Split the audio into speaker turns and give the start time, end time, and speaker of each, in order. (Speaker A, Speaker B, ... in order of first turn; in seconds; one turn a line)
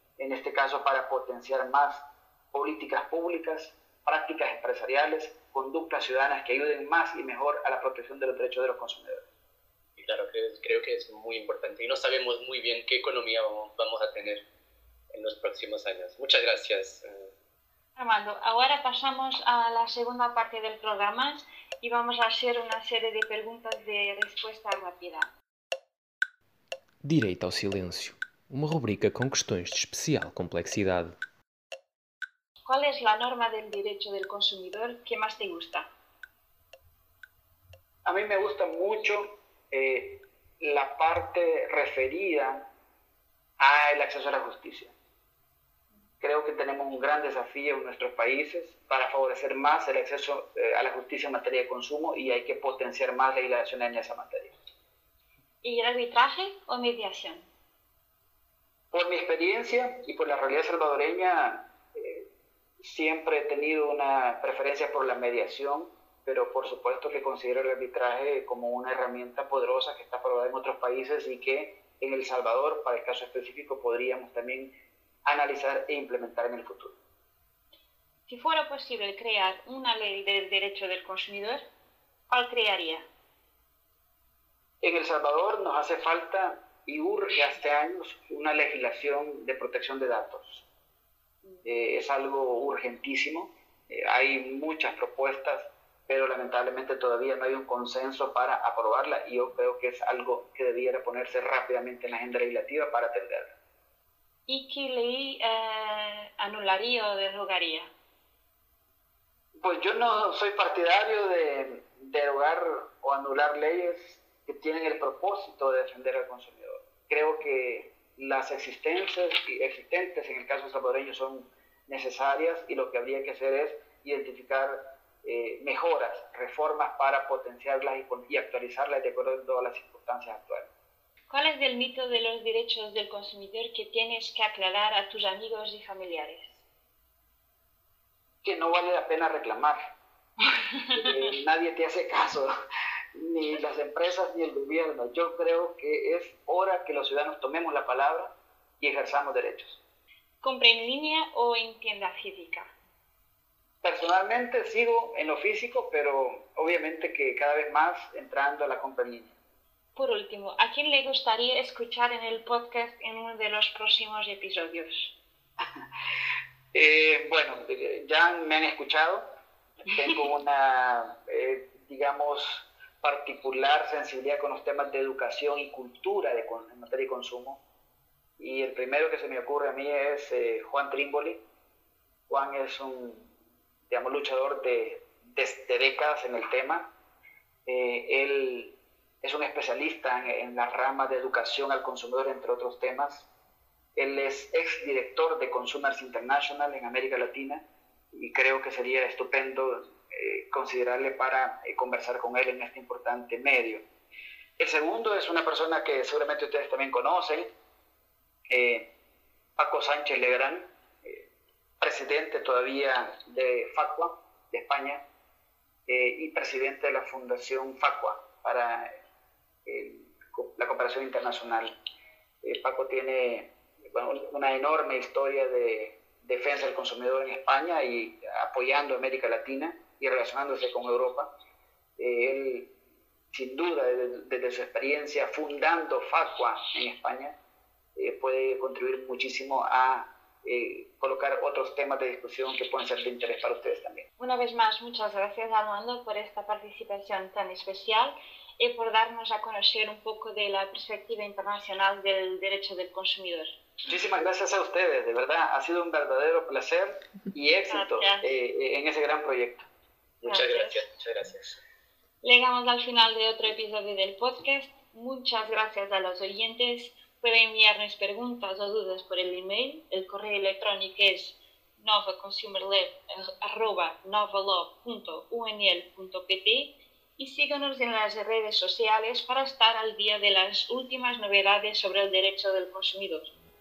Speaker A: 0.2-9.3
Speaker B: 10.0-14.4
Speaker B: 15.1-17.3
Speaker C: 18.0-25.3
Speaker D: 27.0-31.2
Speaker C: 32.6-35.9
Speaker A: 38.0-42.7
Speaker A: 43.6-44.9
Speaker A: 46.2-54.6
Speaker C: 55.6-57.5
Speaker A: 58.9-62.3
Speaker A: 62.8-74.7
Speaker A: 75.2-77.0
Speaker C: 78.3-81.7
Speaker C: 82.3-83.1
Speaker A: 84.8-90.7
Speaker A: 91.7-103.5
Speaker C: 104.5-107.9
Speaker A: 109.6-130.7
Speaker C: 131.3-136.6
Speaker A: 138.4-139.8
Speaker A: 140.9-142.5
Speaker A: 143.2-149.8
Speaker C: 150.4-152.7
Speaker A: 153.8-159.3
Speaker C: 159.9-165.2
Speaker A: 166.7-169.3
Speaker A: 169.9-177.6
Speaker A: 178.4-181.4
Speaker A: 182.3-183.3
Speaker A: 183.9-186.9
Speaker A: 187.7-193.3
Speaker A: 194.0-203.8
Speaker A: 204.6-207.5
Speaker A: 208.5-208.9
Speaker A: 209.6-211.3
Speaker A: 211.8-215.0
Speaker A: 215.9-219.0
Speaker A: 219.7-221.8
Speaker A: 222.4-231.3
Speaker A: 232.0-232.7
Speaker A: 233.3-237.4
Speaker A: 238.0-244.1
Speaker C: 244.2-253.5
Speaker A: 253.9-259.7
Speaker C: 257.7-258.3
Speaker B: 260.2-261.6
Speaker C: 260.2-260.8
Speaker C: 262.2-283.3